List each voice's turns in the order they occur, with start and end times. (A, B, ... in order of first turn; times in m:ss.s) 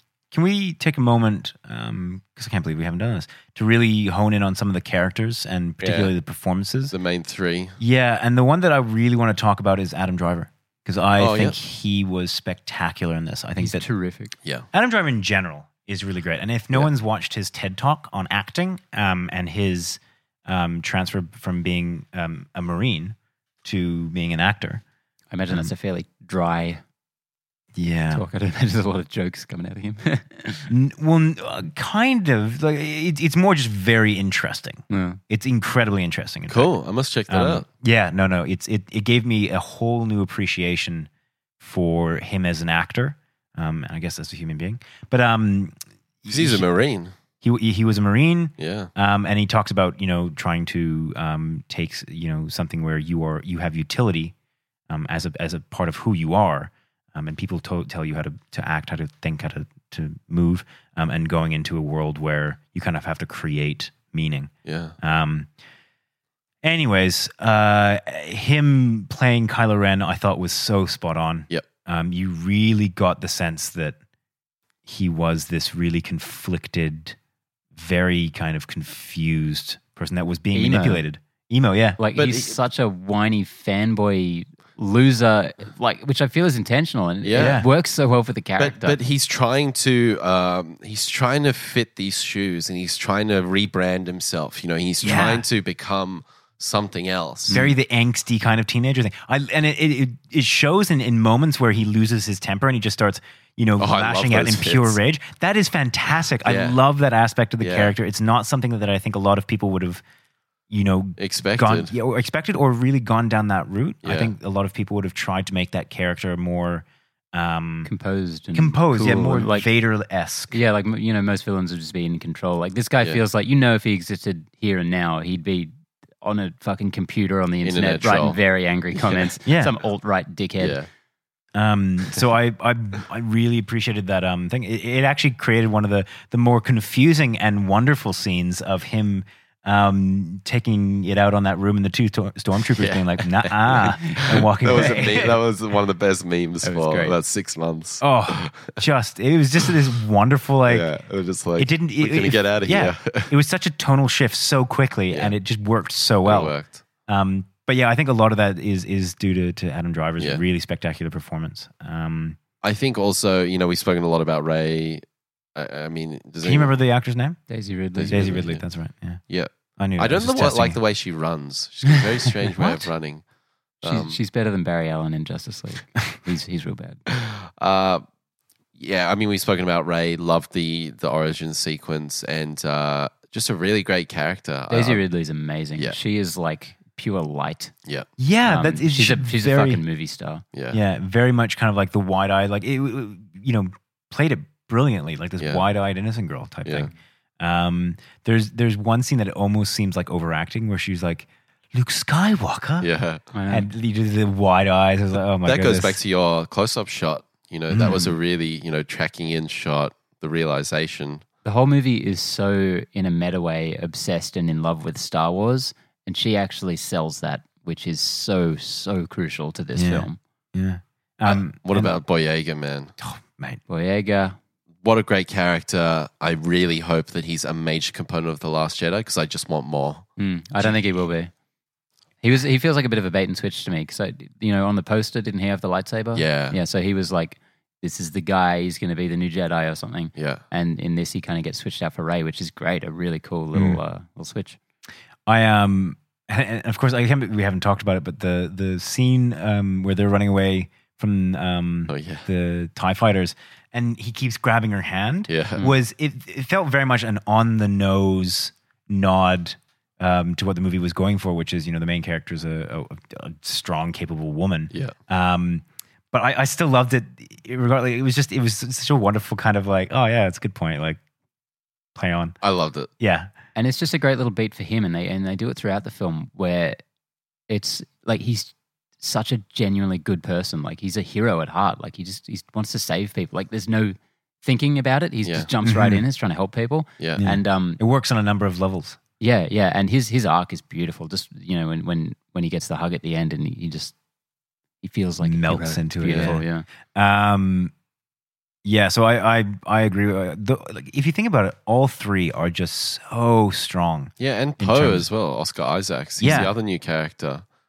0:00.3-0:06.9 A
0:05.8-0:06.1 B
0:06.9-0:07.8 B
0:07.8-0:13.8 A
0:11.2-0:11.6 B
0:13.6-0:14.3 C
0:14.7-0:24.8 A
0:25.3-0:26.8 C
0:27.8-0:28.2 A
0:28.1-0:30.7 C
0:30.7-0:36.7 A
0:34.9-0:35.2 C
0:36.5-0:37.6 B
0:37.3-0:41.1 A
0:41.6-0:46.7 A
0:46.3-0:47.1 B
0:47.4-0:54.3 A
0:48.6-0:48.9 B
0:54.9-1:04.5 A
1:04.6-1:05.0 B
1:05.0-1:05.5 A
1:06.6-1:14.0 A
1:14.9-1:17.2 A
1:17.8-1:22.0 A
1:20.5-1:21.0 C
1:22.0-1:29.0 C
1:22.2-1:22.6 B
1:27.2-1:27.6 B
1:27.4-1:27.7 A
1:28.6-1:37.6 B
1:35.0-1:35.5 A
1:37.5-1:37.7 C
1:37.5-1:50.0 A
1:43.8-1:45.0 B
1:46.4-1:46.8 B
1:47.6-1:47.9 B
1:50.7-1:57.9 A
1:51.2-1:51.9 B
1:54.0-1:54.3 B
1:57.9-1:59.7 C
1:58.5-2:00.6 A
2:00.5-2:05.7 C
2:06.2-2:10.8 C
2:07.6-2:08.4 B
2:09.0-2:09.3 B
2:09.5-2:09.7 A
2:10.6-2:10.9 B
2:11.6-2:25.4 A
2:22.7-2:28.8 B
2:23.7-2:25.1 C
2:26.6-2:27.2 C
2:28.0-2:30.9 A
2:30.7-2:33.3 B
2:31.6-2:36.6 A
2:36.2-2:36.8 B
2:37.1-2:42.4 A
2:42.6-2:45.0 B
2:45.6-2:46.8 B
2:46.4-2:47.4 A
2:47.5-2:48.4 C
2:48.0-2:48.6 B
2:48.1-2:49.2 A
2:49.3-2:53.2 B
2:49.8-2:50.8 A
2:53.8-2:54.2 B
2:53.8-2:57.0 C
2:57.1-2:58.0 B
2:58.8-3:05.0 B
3:04.7-3:07.7 C
3:08.2-3:09.8 A
3:08.5-3:10.4 C
3:10.5-3:10.8 B
3:10.7-3:22.9 A
3:16.7-3:16.9 B
3:22.8-3:23.2 B
3:23.3-3:23.7 C
3:23.5-3:26.0 A
3:25.4-3:31.2 B
3:27.7-3:28.1 A
3:31.4-3:40.2 C
3:39.8-3:42.0 A
3:41.3-3:42.9 B
3:43.0-3:43.6 A
3:43.7-3:44.4 C
3:44.8-3:50.1 B
3:50.2-3:51.3 C
3:52.2-4:04.6 C
3:56.2-3:56.6 B
4:00.2-4:00.4 B
4:03.5-4:03.8 A
4:05.3-4:31.0 A
4:11.9-4:12.3 B
4:15.3-4:15.7 B
4:32.0-4:32.4 A
4:32.4-4:32.9 B
4:33.0-4:33.3 A
4:33.6-4:36.8 C
4:37.5-4:47.8 C
4:45.2-4:45.5 B
4:45.6-4:46.0 A
4:47.2-4:49.0 A
4:49.2-4:54.0 C
4:54.8-4:56.7 C
4:55.2-4:57.7 A
4:56.1-4:56.4 B
4:58.6-5:05.1 A
5:04.2-5:07.4 B
5:06.2-5:06.6 A